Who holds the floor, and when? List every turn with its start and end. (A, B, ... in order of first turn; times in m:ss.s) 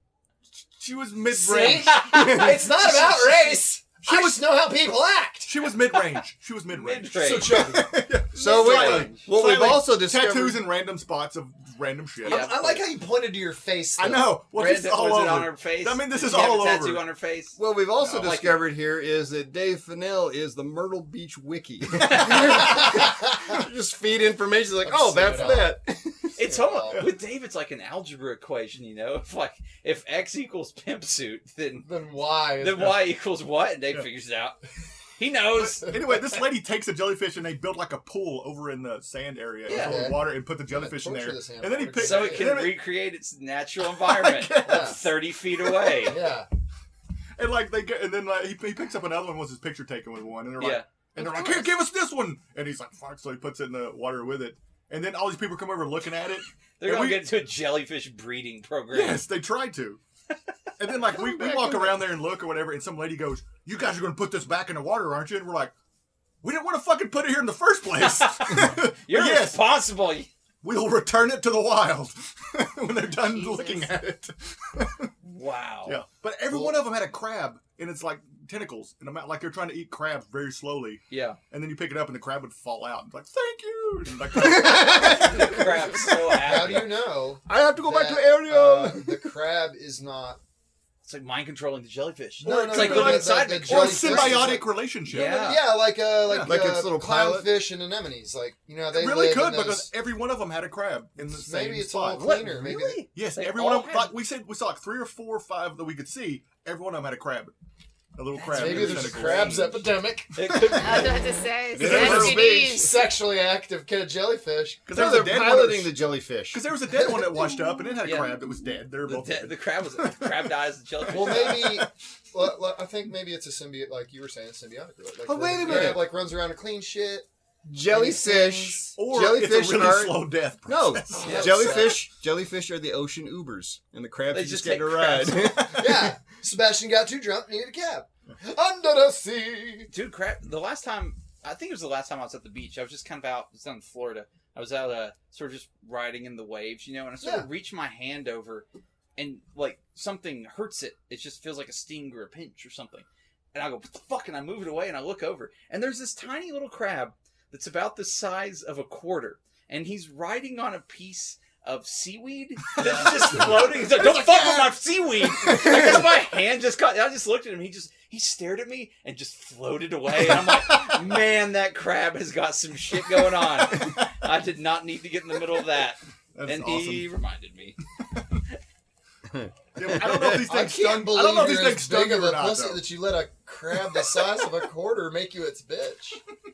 0:00.6-0:04.6 A
0:01.3-0:05.5 B
0:01.6-0:02.7 C
0:05.4-0:12.5 A
0:06.7-0:07.7 C
0:07.2-0:08.1 B
0:08.3-0:10.6 D
0:08.4-0:09.3 C
0:12.2-0:14.4 B
0:12.2-0:12.8 C
0:14.0-0:17.0 A
0:14.5-0:17.6 C
0:17.6-0:26.4 D
0:18.0-0:18.4 A
0:18.1-0:18.6 C
0:22.0-0:22.6 C
0:22.2-0:23.6 B
0:24.8-0:25.8 B
0:26.4-0:27.0 B
0:26.4-0:31.9 C
0:31.8-0:33.0 B
0:32.6-0:34.6 C
0:35.2-0:35.9 C
0:35.6-0:42.8 A
0:39.7-0:40.0 C
0:39.7-0:42.6 B
0:42.0-0:46.2 C
0:44.0-0:45.0 A
0:44.6-0:45.0 B
0:46.0-0:46.5 B
0:47.4-0:57.3 A
0:50.6-0:50.9 C
0:51.2-0:51.6 E
0:56.8-0:59.2 C
0:58.9-1:00.0 A
1:00.8-1:05.7 A
1:06.4-1:09.7 A
1:08.0-1:10.3 C
1:10.6-1:15.1 A
1:13.3-1:13.9 E
1:15.2-1:16.0 C
1:15.8-1:26.0 A
1:16.5-1:16.8 B
1:21.1-1:21.4 C
1:24.4-1:25.4 D
1:24.9-1:30.4 B
1:24.9-1:26.9 C
1:27.5-1:29.3 D
1:31.0-1:35.8 C
1:32.4-1:39.9 B
1:32.4-1:35.4 A
1:36.2-1:36.6 A
1:36.4-1:37.6 D
1:38.9-1:42.4 A
1:41.2-1:43.0 B
1:42.2-1:44.1 C
1:43.1-1:47.5 A
1:48.2-1:49.9 A
1:48.3-1:49.7 C
1:48.5-1:50.4 B
1:50.3-1:51.2 C
1:50.7-1:51.0 A
1:50.7-1:53.0 E
1:51.7-1:52.9 D
1:51.8-1:52.4 A
1:51.9-1:55.3 B
1:54.9-1:56.0 A
1:54.9-1:56.6 D
1:56.5-2:00.3 A
1:56.9-1:57.8 B
1:58.0-1:58.4 C
1:59.0-2:01.8 C
2:01.1-2:07.3 B
2:01.1-2:01.9 A
2:05.2-2:06.1 D
2:05.6-2:05.9 A
2:07.6-2:16.1 D
2:07.8-2:09.0 B
2:09.0-2:11.8 A
2:11.2-2:12.1 B
2:11.2-2:11.8 C
2:14.3-2:15.6 C
2:15.6-2:19.9 B
2:19.9-2:57.8 C
2:27.2-2:27.5 B
2:42.8-2:44.7 A
2:45.5-2:45.8 A
2:56.4-2:57.1 A
2:58.1-2:58.4 A
2:59.2-3:00.4 D
2:59.8-3:02.8 A
3:00.3-3:06.2 B